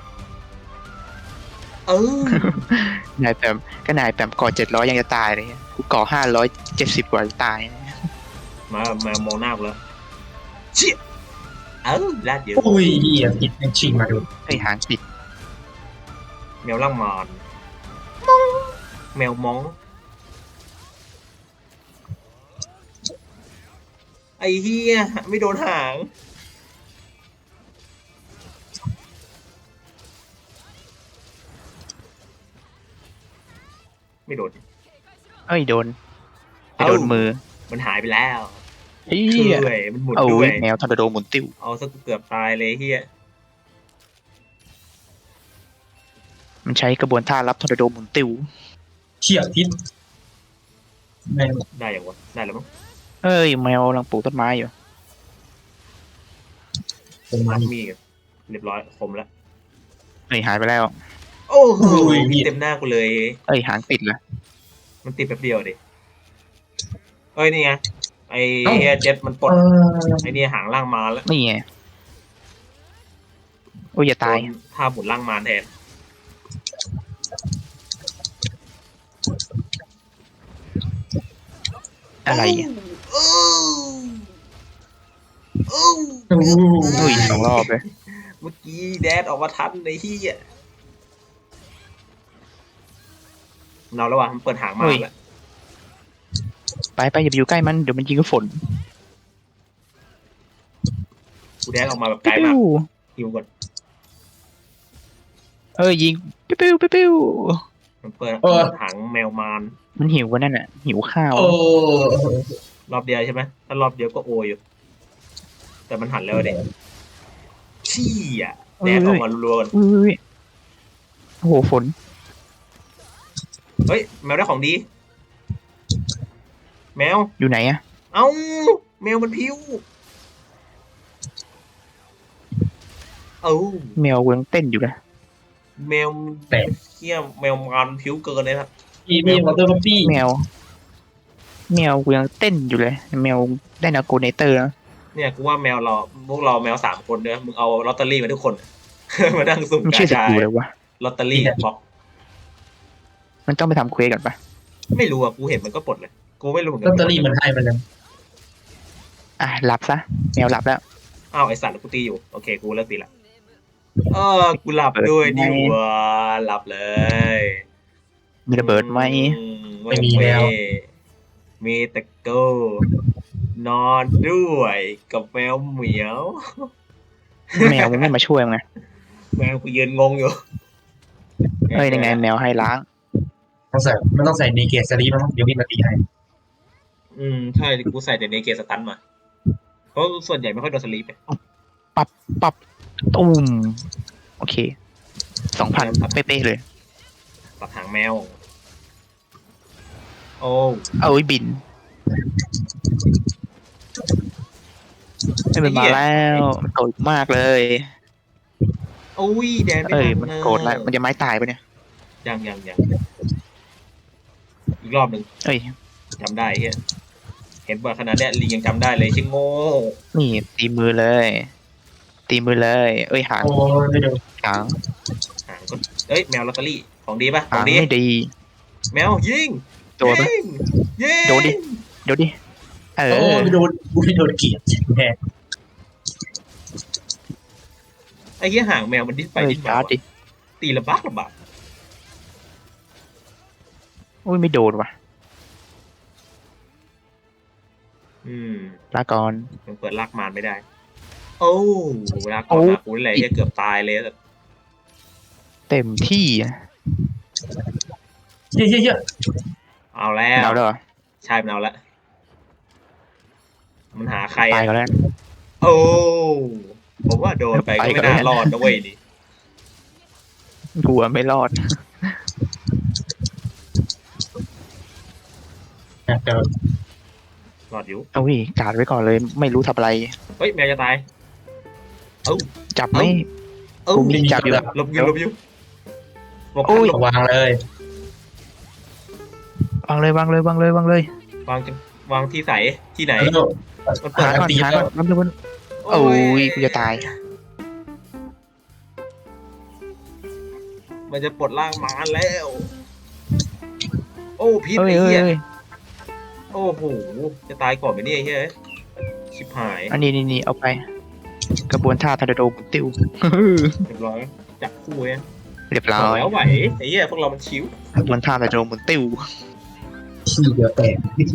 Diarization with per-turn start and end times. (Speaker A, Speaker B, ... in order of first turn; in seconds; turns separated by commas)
Speaker A: 1.9-2.6, Speaker B: 2.3-8.0, Speaker A: 8.7-9.8, Speaker A: 11.8-12.7, Speaker C: 12.6-14.3, Speaker B: 14.5-15.0, Speaker A: 16.6-17.4, Speaker A: 18.2-19.8, Speaker A: 24.4-26.1, Speaker A: 34.3-34.6, Speaker B: 35.5-36.0, Speaker B: 36.8-37.4, Speaker A: 36.8-38.6, Speaker B: 39.1-41.5, Speaker A: 39.3-40.6, Speaker A: 41.6-43.1, Speaker B: 46.6-48.5, Speaker C: 49.2-49.7, Speaker C: 51.3-51.6, Speaker A: 51.8-52.7, Speaker B: 53.2-54.7, Speaker C: 57.3-57.7, Speaker A: 57.5-59.3, Speaker B: 60.3-60.9, Speaker A: 61.5-63.4, Speaker C: 61.8-62.5, Speaker B: 63.5-64.2, Speaker A: 65.0-65.8, Speaker A: 67.3-69.6, Speaker C: 68.7-68.9, Speaker C: 69.5-70.4, Speaker A: 70.2-71.3, Speaker B: 71.3-71.6, Speaker B: 74.0-74.5, Speaker A: 74.2-75.7, Speaker B: 82.3-82.7, Speaker A: 82.3-84.2, Speaker A: 85.7-87.5, Speaker C: 86.3-87.5, Speaker B: 87.0-87.8, Speaker A: 88.1-90.4, Speaker A: 93.9-95.1, Speaker B: 94.8-95.1, Speaker B: 97.0-98.5, Speaker A: 101.7-102.6, Speaker B: 102.2-102.9, Speaker A: 103.2-103.5, Speaker B: 105.8-107.6, Speaker A: 108.0-109.8, Speaker C: 108.4-108.8, Speaker B: 110.0-111.6, Speaker C: 111.3-112.6, Speaker A: 112.9-114.6, Speaker A: 115.9-116.5, Speaker C: 116.3-116.7, Speaker A: 117.8-119.7, Speaker B: 118.8-120.2, Speaker B: 121.4-121.9, Speaker A: 123.9-124.8, Speaker A: 127.0-127.3, Speaker B: 127.4-127.8, Speaker A: 128.1-129.8, Speaker A: 133.4-134.0, Speaker B: 134.0-135.0, Speaker A: 135.8-138.7, Speaker C: 139.1-140.2, Speaker A: 139.3-139.6, Speaker B: 140.0-140.5, Speaker B: 141.7-144.7, Speaker A: 145.1-150.5, Speaker B: 149.8-150.7, Speaker A: 151.0-151.8, Speaker C: 151.3-151.6, Speaker B: 153.5-154.4, Speaker A: 154.9-157.4, Speaker C: 156.8-157.8, Speaker B: 159.4-160.8, Speaker A: 161.3-163.1, Speaker A: 164.1-167.6, Speaker B: 165.0-165.8, Speaker B: 168.5-169.4, Speaker A: 168.6-170.9, Speaker C: 169.9-170.5, Speaker A: 171.6-172.8, Speaker A: 173.6-176.7, Speaker A: 177.5-178.1, Speaker B: 177.6-178.6, Speaker A: 179.4-180.4, Speaker A: 181.7-182.2, Speaker B: 181.7-182.8, Speaker C: 183.7-186.0, Speaker A: 187.1-189.0, Speaker A: 189.9-191.2, Speaker B: 192.0-192.6, Speaker B: 193.1-193.8, Speaker B: 194.4-194.7, Speaker B: 195.5-196.6, Speaker A: 195.7-196.2, Speaker A: 197.6-198.4, Speaker A: 200.4-200.9, Speaker B: 201.0-201.6, Speaker B: 205.5-207.9, Speaker A: 205.6-206.5, Speaker A: 209.2-210.9, Speaker B: 209.9-211.6, Speaker A: 212.2-212.8, Speaker A: 214.8-215.3, Speaker B: 215.4-215.7, Speaker A: 216.2-216.8, Speaker A: 217.7-220.0, Speaker B: 220.1-221.5, Speaker B: 222.3-223.5, Speaker C: 223.4-224.2, Speaker B: 224.4-224.7, Speaker A: 225.5-227.9, Speaker B: 227.5-228.3, Speaker A: 228.9-231.8, Speaker B: 230.0-230.3, Speaker B: 231.3-232.3, Speaker B: 233.0-233.6, Speaker C: 233.1-235.2, Speaker A: 238.4-239.9, Speaker B: 239.4-240.0, Speaker A: 240.6-241.3, Speaker B: 244.2-244.9, Speaker A: 248.2-248.8, Speaker B: 248.9-249.5, Speaker A: 249.7-250.6, Speaker A: 251.4-254.1, Speaker B: 252.5-253.3, Speaker B: 255.7-256.6, Speaker C: 258.5-259.0, Speaker A: 259.9-260.6, Speaker B: 260.4-260.8, Speaker A: 261.2-261.8, Speaker A: 263.9-264.7, Speaker B: 264.5-264.9, Speaker A: 265.6-269.0, Speaker B: 267.6-268.5, Speaker B: 270.8-272.2, Speaker C: 276.1-276.5, Speaker A: 277.7-278.1, Speaker B: 278.1-280.1, Speaker A: 280.4-281.0, Speaker A: 282.3-283.2, Speaker B: 282.8-283.2, Speaker A: 283.9-285.4, Speaker B: 283.9-285.1, Speaker C: 284.1-284.7, Speaker A: 286.5-287.0, Speaker B: 286.6-287.0, Speaker C: 286.9-287.6, Speaker B: 289.9-291.1, Speaker A: 291.5-293.4, Speaker C: 293.2-294.9, Speaker A: 294.0-294.4, Speaker B: 294.1-295.3, Speaker A: 295.8-297.1, Speaker B: 295.9-297.0, Speaker A: 301.1-302.7, Speaker A: 304.4-305.3, Speaker B: 304.8-305.4, Speaker A: 306.5-308.5, Speaker A: 309.3-310.0, Speaker B: 309.9-310.8, Speaker B: 311.7-313.7, Speaker A: 313.9-315.2, Speaker B: 315.7-316.3, Speaker A: 315.9-317.7, Speaker C: 316.4-316.7, Speaker B: 318.0-319.2, Speaker C: 320.3-321.1